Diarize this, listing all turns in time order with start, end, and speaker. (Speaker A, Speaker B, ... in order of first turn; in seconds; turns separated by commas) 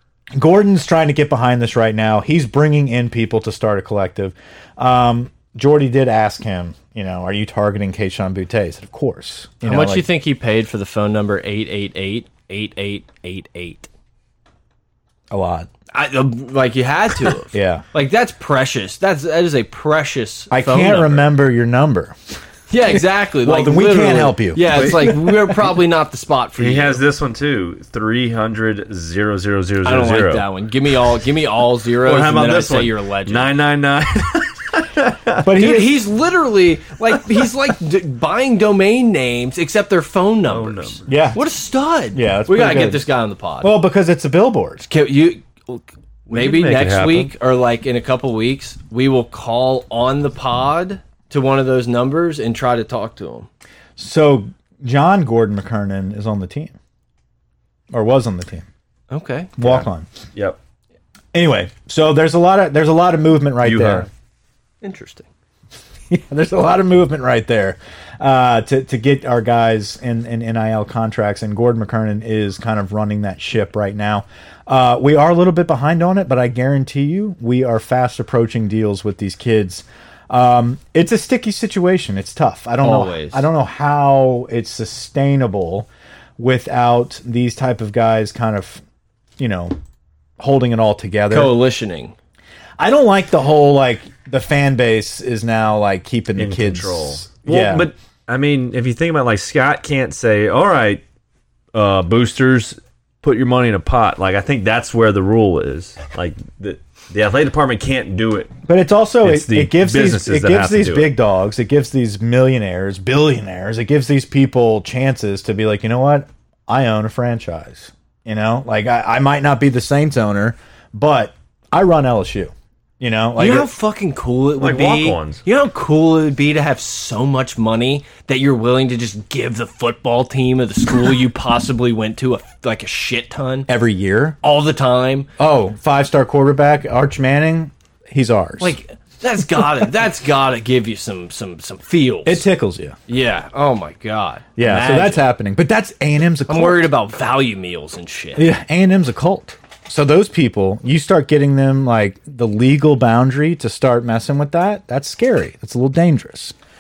Speaker A: 0.3-10.1, Speaker B: 9.6-13.9, Speaker A: 15.3-15.7, Speaker B: 15.9-21.3, Speaker A: 17.5-17.8, Speaker A: 20.5-22.2, Speaker B: 22.7-27.0, Speaker A: 23.4-25.4, Speaker C: 24.7-25.1, Speaker C: 26.6-30.5, Speaker B: 29.9-33.5, Speaker C: 32.0-35.5, Speaker A: 35.4-36.0, Speaker B: 35.5-43.7, Speaker C: 40.5-41.1, Speaker A: 41.1-41.4, Speaker A: 42.1-43.1, Speaker A: 43.6-44.9, Speaker B: 44.9-53.5, Speaker C: 46.3-47.3, Speaker A: 54.0-56.7, Speaker A: 57.9-58.7, Speaker B: 59.1-59.9, Speaker A: 59.6-60.1, Speaker A: 61.3-64.1, Speaker C: 63.6-64.1, Speaker B: 64.8-65.3, Speaker A: 66.1-88.8, Speaker B: 82.8-83.4, Speaker A: 89.4-89.7, Speaker A: 90.4-91.5, Speaker B: 91.3-92.2, Speaker A: 92.8-97.9, Speaker C: 96.4-101.0, Speaker C: 101.7-108.5, Speaker A: 108.7-123.7, Speaker C: 109.2-111.1, Speaker B: 123.4-133.7, Speaker C: 124.6-125.4, Speaker A: 133.7-134.4, Speaker B: 134.4-135.3, Speaker A: 135.4-138.8, Speaker B: 138.6-142.4, Speaker A: 142.2-143.0, Speaker B: 143.1-145.3, Speaker A: 144.6-146.9, Speaker B: 146.5-148.5, Speaker A: 148.4-156.6